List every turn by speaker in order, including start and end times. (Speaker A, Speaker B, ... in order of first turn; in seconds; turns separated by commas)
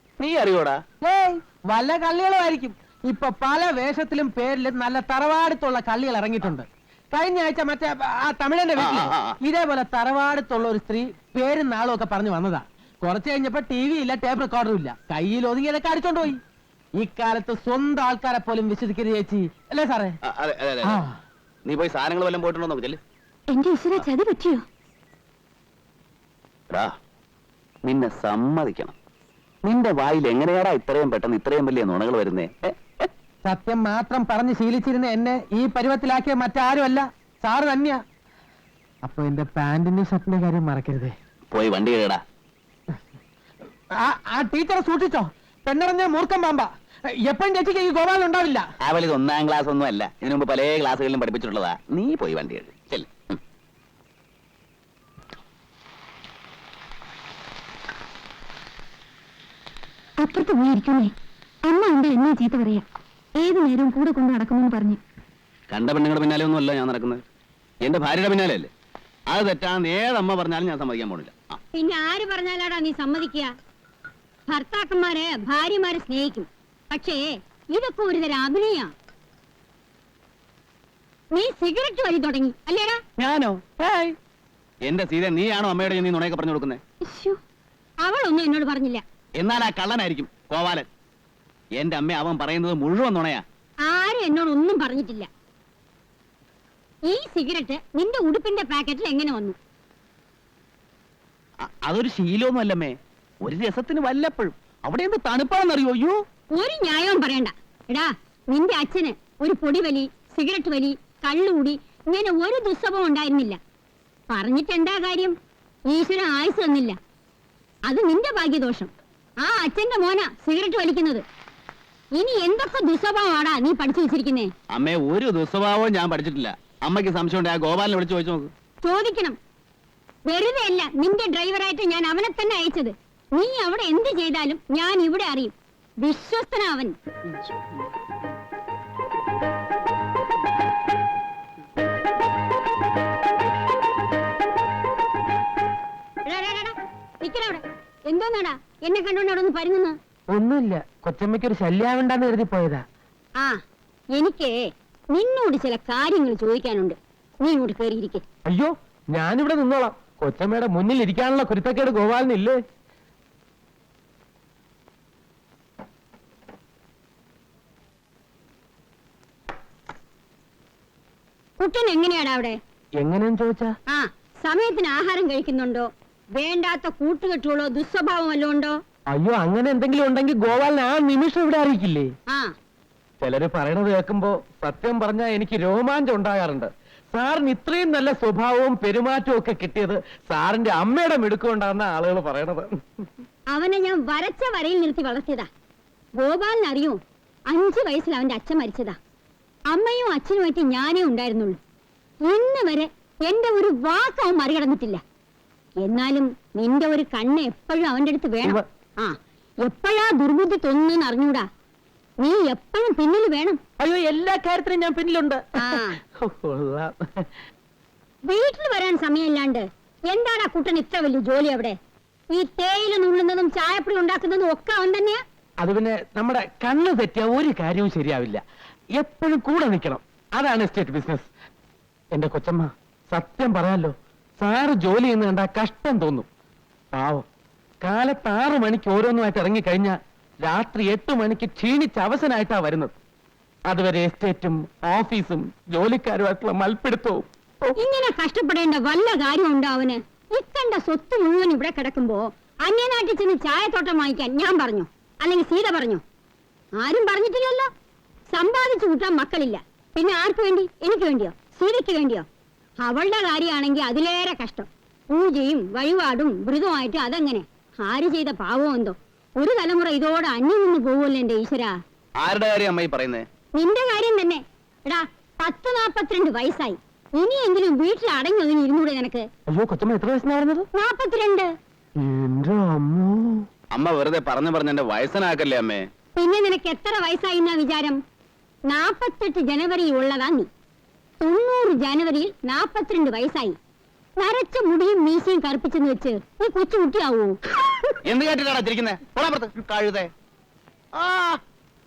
Speaker A: 0.2-0.8, Speaker B: 1.0-16.4, Speaker A: 8.8-9.4, Speaker B: 17.0-20.1, Speaker A: 20.2-21.0, Speaker A: 21.6-23.0, Speaker C: 23.5-24.6, Speaker A: 27.9-28.9, Speaker A: 29.6-33.1, Speaker B: 33.4-38.0, Speaker B: 39.0-41.1, Speaker A: 41.5-42.2, Speaker B: 44.0-46.7, Speaker B: 47.2-48.6, Speaker A: 48.8-53.4, Speaker C: 60.2-61.1, Speaker C: 61.6-62.8, Speaker C: 63.4-65.0, Speaker A: 65.7-67.2, Speaker A: 67.8-68.7, Speaker A: 69.3-71.6, Speaker D: 71.7-73.5, Speaker D: 74.5-78.9, Speaker D: 81.3-83.0, Speaker A: 83.2-84.1, Speaker A: 84.8-86.8, Speaker C: 87.1-87.4, Speaker D: 88.0-89.0, Speaker A: 89.4-90.9, Speaker A: 91.8-93.4, Speaker D: 93.8-95.3, Speaker D: 97.1-99.6, Speaker A: 101.8-106.2, Speaker D: 106.6-113.6, Speaker D: 114.3-115.3, Speaker D: 115.9-117.0, Speaker D: 117.9-118.9, Speaker D: 119.4-121.2, Speaker D: 122.2-124.5, Speaker A: 124.7-128.5, Speaker D: 128.8-129.4, Speaker D: 130.3-136.9, Speaker D: 146.2-149.9, Speaker E: 150.3-152.8, Speaker D: 154.2-154.6, Speaker D: 155.1-158.2, Speaker E: 158.4-162.6, Speaker D: 171.6-172.6, Speaker E: 173.0-173.7, Speaker D: 173.9-178.8, Speaker E: 179.1-182.1, Speaker E: 183.2-192.7, Speaker D: 193.5-195.5, Speaker D: 196.2-197.0, Speaker D: 197.5-199.0, Speaker D: 199.7-201.6, Speaker D: 202.2-205.0, Speaker D: 205.8-211.4, Speaker D: 212.2-213.6, Speaker E: 213.8-217.3, Speaker D: 215.6-216.0, Speaker D: 218.2-221.8, Speaker D: 222.3-225.2, Speaker E: 225.6-228.4, Speaker E: 229.0-231.3, Speaker E: 232.1-236.2, Speaker E: 236.9-237.2, Speaker E: 237.8-242.9, Speaker E: 243.7-247.7, Speaker D: 247.8-256.0, Speaker D: 256.8-257.7, Speaker D: 258.3-262.2, Speaker D: 262.8-271.7, Speaker A: 272.2-273.2, Speaker D: 273.5-279.2, Speaker E: 279.5-280.7, Speaker D: 280.7-281.5, Speaker E: 282.0-283.4, Speaker A: 283.7-285.9, Speaker D: 286.2-288.0, Speaker D: 288.7-290.5, Speaker D: 291.2-293.5, Speaker D: 294.2-297.4, Speaker A: 298.0-300.1, Speaker A: 300.9-301.4